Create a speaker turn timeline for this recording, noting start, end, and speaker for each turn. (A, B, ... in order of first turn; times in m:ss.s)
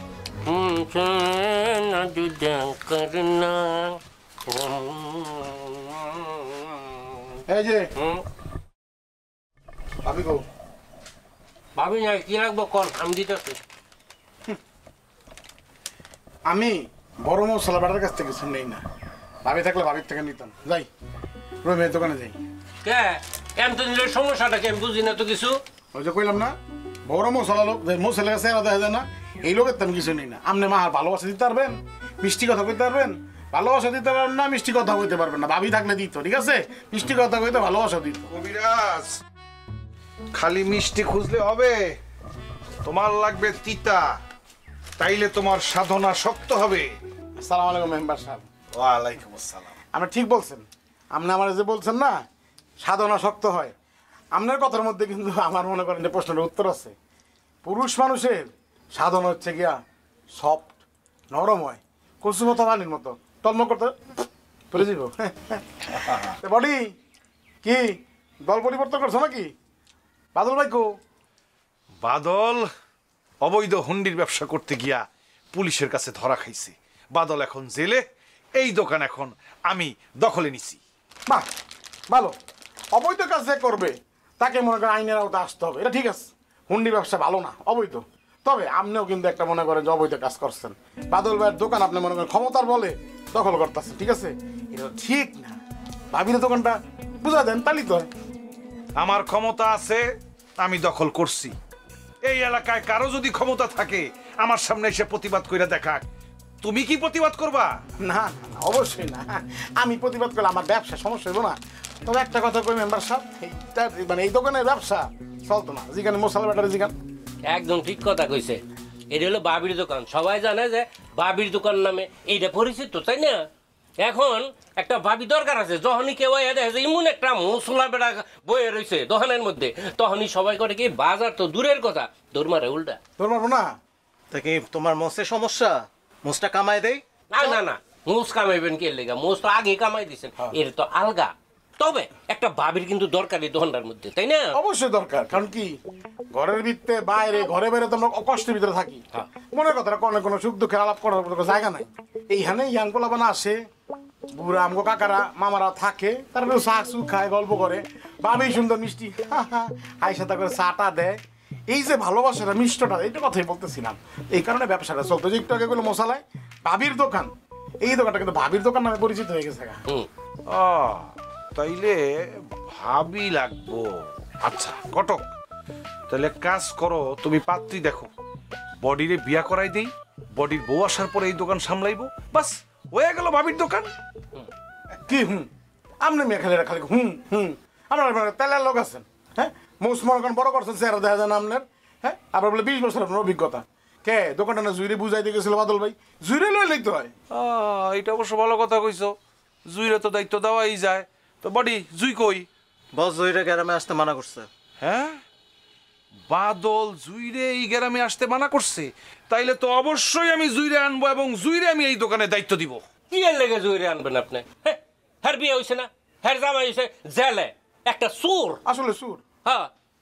0:00.4-0:07.4 A
0:07.5-0:07.9 B
0:08.0-0:08.2 A
0:10.0-0:10.4 B
0:11.8-0:13.6 A
0:16.5-0:18.8 B
0:19.4-0:20.9 B
0:21.6-0:22.4 B
0:22.8-0:25.6 A
0:25.9-0:26.6 B
0:27.1-0:38.3 B
0:38.3-0:39.2 C
0:40.4-0:41.9 C
0:42.8-0:44.0 C
0:45.0-0:46.9 C
0:47.4-0:48.5 B
0:48.8-0:49.8 C
0:49.9-0:52.2 B
0:52.8-0:53.7 B
0:54.3-0:57.0 B
0:57.6-0:59.8 B
1:00.3-1:03.9 B
1:04.7-1:06.8 B
1:06.1-1:06.3 C
1:07.6-1:07.9 B
1:08.5-1:09.5 B
1:10.4-1:10.9 B
1:12.0-1:12.7 C
1:13.4-1:18.0 C
1:18.6-1:20.8 C
1:22.9-1:35.6 B
1:36.1-1:38.1 B
1:39.0-1:40.0 C
1:40.6-1:41.6 C
1:42.2-1:46.1 C
1:46.6-1:47.8 C
1:48.0-1:56.9 B
1:57.5-2:03.4 A
2:04.0-2:13.0 A
2:13.2-2:13.7 B
2:14.3-2:17.0 D
2:17.3-2:24.6 A
2:24.5-2:25.8 B
2:26.3-2:33.6 B
2:34.3-2:47.3 B
2:47.8-2:49.8 B
2:50.5-2:55.3 C
2:56.1-2:58.1 C
2:58.8-3:03.9 C
3:05.1-3:05.5 B
3:06.0-3:17.1 B
3:17.3-3:19.2 C
3:19.7-3:22.5 C
3:22.9-3:24.5 D
3:24.8-3:25.2 C
3:26.3-3:32.8 C
3:33.1-3:38.6 A
3:38.7-3:39.2 B